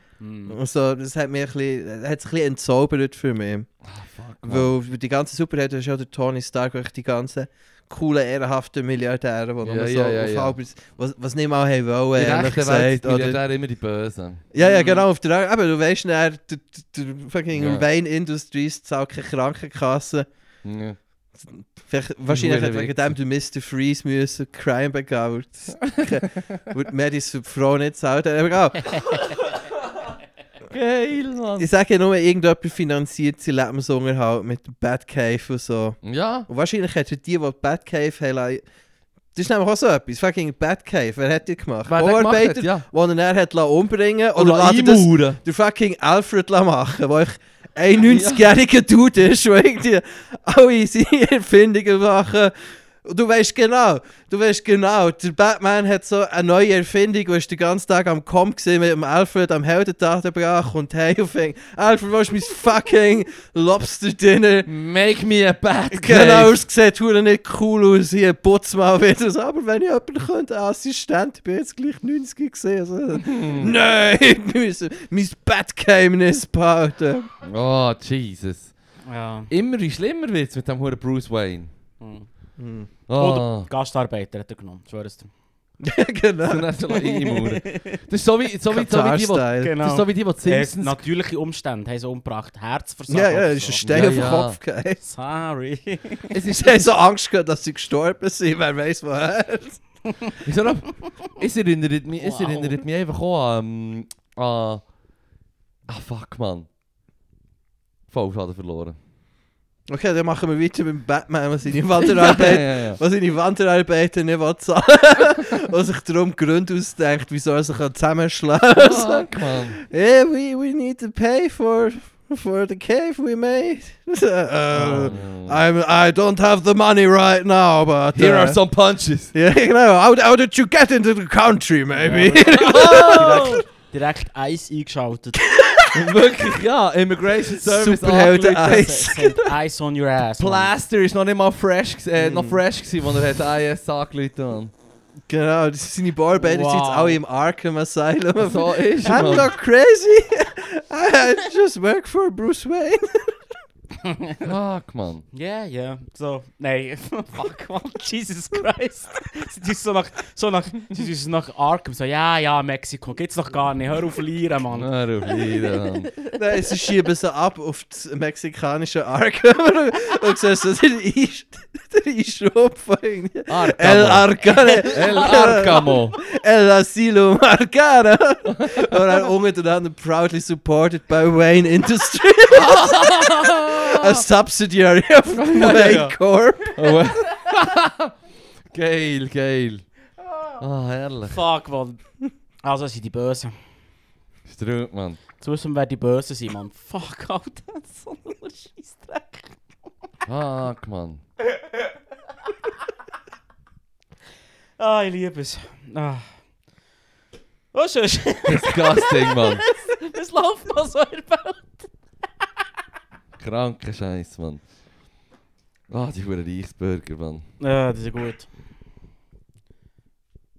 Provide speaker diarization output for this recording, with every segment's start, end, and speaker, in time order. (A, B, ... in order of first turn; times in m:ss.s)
0:00.2-0:00.6 A
0:00.5-0:03.7 B
0:03.8-0:04.7 C
0:04.4-0:13.4 B
0:09.6-0:10.6 C
0:12.1-0:14.4 C
0:14.5-0:20.3 B
0:14.6-0:15.0 A
0:17.5-0:17.8 C
0:20.6-0:21.0 C
0:21.4-0:29.2 B
0:22.3-0:23.1 C
0:25.8-0:26.7 C
0:29.1-0:29.8 C
0:30.7-0:31.7 C
0:31.6-0:38.6 B
0:36.0-0:36.5 C
0:39.3-1:04.7 B
0:41.9-0:42.8 C
0:44.3-0:45.4 C
0:48.1-0:48.5 C
1:04.6-1:06.6 C
1:05.9-1:17.3 B
1:13.2-1:13.7 C
1:17.4-1:18.7 C
1:19.0-1:19.5 A
1:19.5-1:21.7 C
1:22.0-1:22.3 A
1:22.6-1:22.9 B
1:23.1-1:23.7 C
1:23.2-1:25.3 A
1:25.8-1:26.7 B
1:26.5-1:31.0 C
1:26.9-1:28.0 A
1:28.7-1:29.8 B
1:29.6-1:34.3 A
1:33.1-1:35.0 B
1:33.8-1:34.6 C
1:35.0-1:36.3 A
1:36.3-1:36.9 C
1:36.4-1:39.8 B
1:40.4-1:44.8 C
1:42.2-1:42.8 A
1:45.9-1:46.7 C
1:48.1-1:49.0 C
1:49.9-2:08.6 B
1:52.0-1:53.0 C
1:58.7-1:59.8 C
2:04.8-2:05.6 C
2:08.1-2:09.3 C
2:09.3-2:13.6 B
2:12.0-2:15.4 A
2:12.5-2:13.6 C
2:15.4-2:16.4 B
2:15.9-2:19.0 C
2:17.5-2:19.5 B
2:18.5-2:20.7 A
2:20.4-2:24.7 C
2:22.2-2:22.6 B
2:25.3-2:33.4 B
2:26.4-2:27.2 A
2:28.4-2:29.5 C
2:34.0-2:34.4 A
2:34.4-2:35.2 C
2:35.3-2:45.8 A
2:44.7-2:46.1 C
2:46.3-3:07.0 B
2:53.5-2:56.2 C
2:58.5-2:58.8 C
3:02.5-3:04.2 C
3:05.3-3:06.2 C
3:06.7-3:08.1 C
3:08.7-3:09.8 C
3:10.6-3:11.4 C
3:11.3-3:12.0 A
3:12.6-3:13.6 A
3:14.5-3:15.2 C
3:15.4-3:19.6 A
3:20.2-3:21.2 C
3:24.8-3:26.3 A
3:27.7-3:31.9 A
3:28.4-3:29.6 C
3:33.4-3:34.6 C
3:35.9-3:37.4 C
3:37.6-3:38.5 A